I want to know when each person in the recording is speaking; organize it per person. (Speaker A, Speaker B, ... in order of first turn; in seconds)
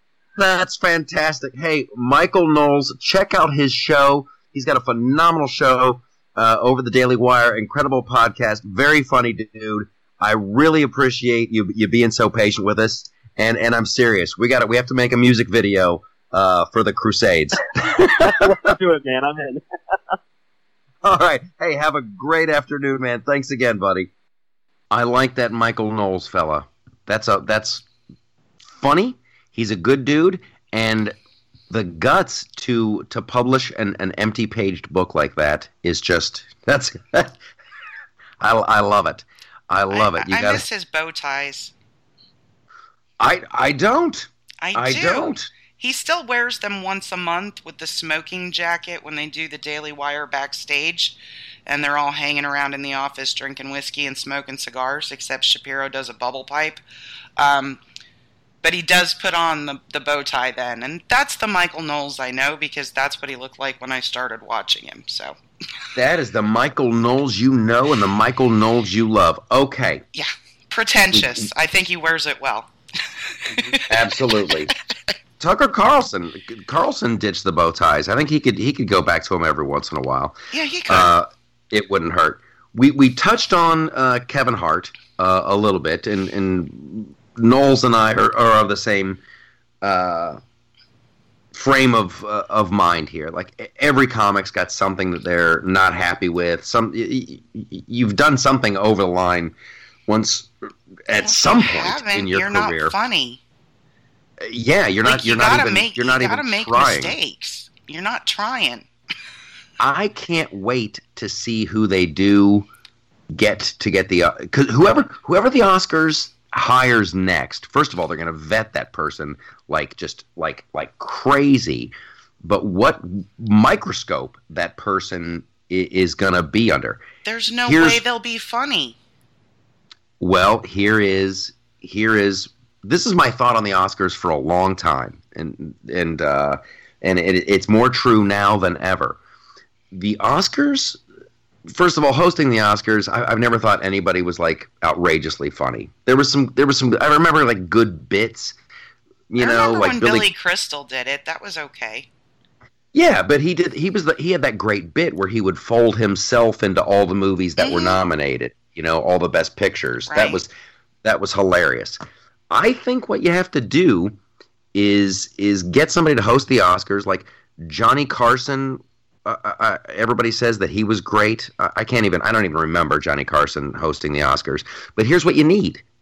Speaker A: 0.4-18.7, 21.0-24.1, 24.9-27.8, 28.7-31.1, 31.7-37.4, 38.4-40.6, 43.2-45.5, 66.0-70.0, 71.1-71.4, 73.7-74.7, 75.4-80.3, 80.9-89.2, 89.8-90.4, 91.5-99.5, 100.1-100.5, 101.1-102.9, 104.4-107.2, 109.8-112.7, 113.3-121.9, 122.4-127.0, 127.7-128.0, 130.2-139.2, 139.9-141.0, 141.7-148.6, 149.3-150.3, 152.9-160.5, 161.0-162.0, 162.5-164.2, 164.7-175.8
Speaker B: 17.8-20.2
Speaker C: 39.9-41.7, 44.6-56.8, 57.4-57.8, 58.6-65.3, 70.1-72.7, 73.3-74.7, 80.5-81.1, 101.2-103.4, 105.0-108.9, 127.2-129.0, 149.4-152.1, 157.6-158.0, 160.1-160.4